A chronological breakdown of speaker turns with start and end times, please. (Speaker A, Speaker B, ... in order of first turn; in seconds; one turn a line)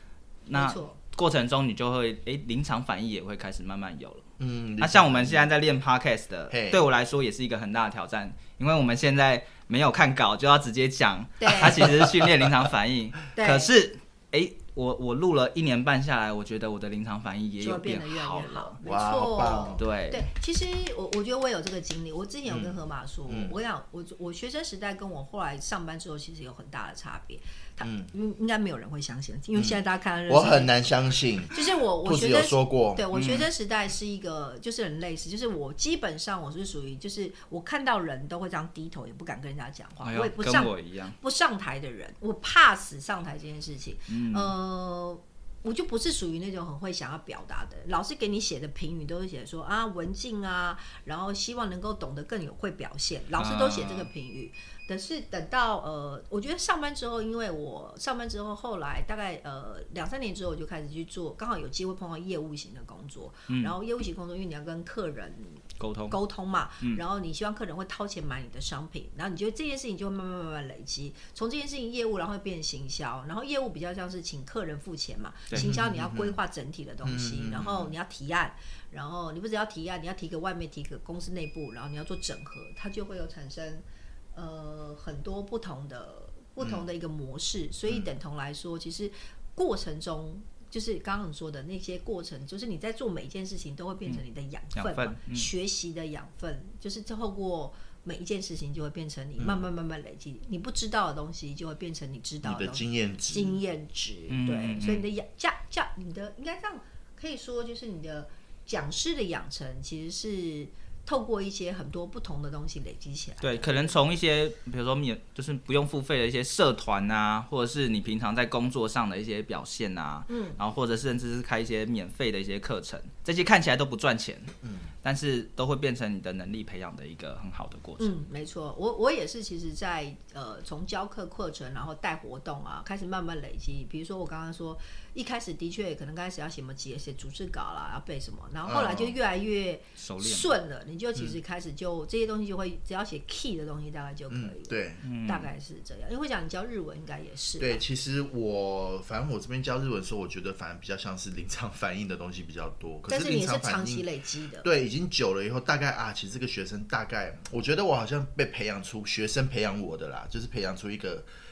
Speaker A: 0.5-4.3
Speaker B: 0.5-1.0
Speaker C: 4.4-5.5
Speaker A: 4.8-18.8
Speaker C: 6.5-6.8
Speaker B: 11.4-11.9
Speaker C: 11.7-12.3
Speaker B: 13.3-13.7
Speaker B: 17.6-30.7
Speaker C: 18.8-19.8
Speaker A: 19.8-20.3
Speaker C: 22.5-23.6
Speaker C: 27.8-28.1
Speaker C: 30.3-33.0
Speaker B: 31.5-114.0
Speaker A: 33.1-33.5
Speaker A: 40.0-41.2
Speaker A: 44.1-44.5
Speaker A: 53.4-54.1
Speaker A: 63.5-63.8
Speaker A: 65.8-66.2
Speaker C: 75.5-76.4
Speaker C: 77.0-77.9
Speaker A: 94.7-95.5
Speaker C: 99.4-99.7
Speaker C: 102.4-103.6
Speaker A: 104.3-105.1
Speaker A: 113.4-124.5
Speaker B: 120.3-120.6
Speaker C: 124.6-124.9
Speaker A: 125.0-128.1
Speaker B: 128.0-147.8
Speaker C: 138.7-139.2
Speaker A: 140.0-140.5
Speaker C: 144.3-145.0
Speaker A: 145.0-145.5
Speaker C: 147.6-154.1
Speaker B: 153.1-154.7
Speaker C: 154.6-161.3